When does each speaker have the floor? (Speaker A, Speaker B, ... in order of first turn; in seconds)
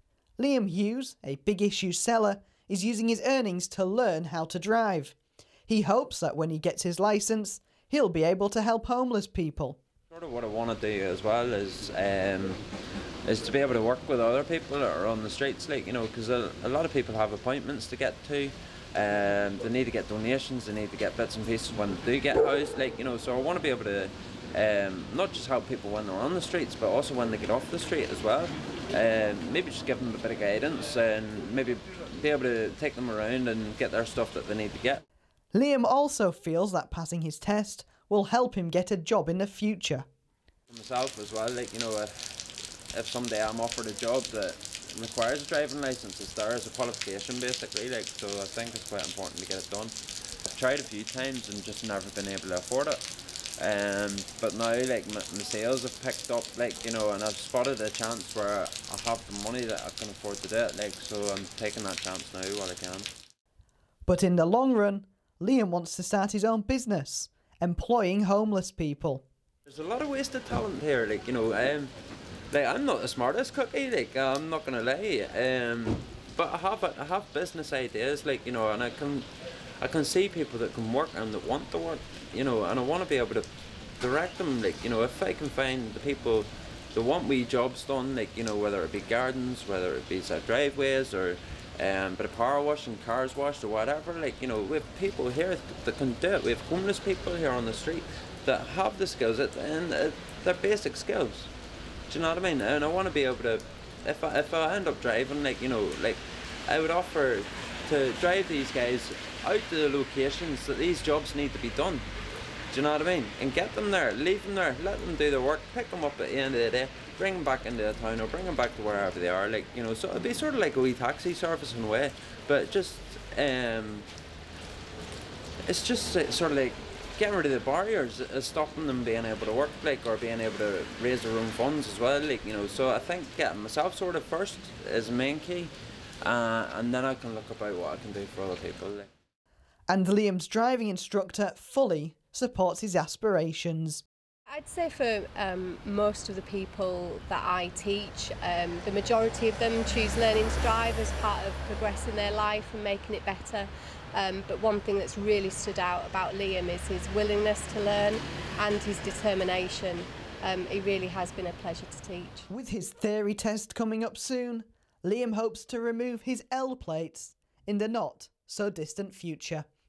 Speaker A: 0.4-5.2, 5.7-9.8, 35.5-40.1, 64.1-69.3, 139.9-144.0, 162.5-169.7
Speaker B: 10.1-12.6, 13.3-35.0, 40.7-42.4, 42.9-49.9, 50.5-53.0, 53.6-63.1, 69.7-71.9, 72.5-79.3, 79.8-83.5, 84.0-101.5, 102.1-112.0, 112.7-124.1, 125.7-135.7, 136.2-139.1
Speaker C: 144.5-162.5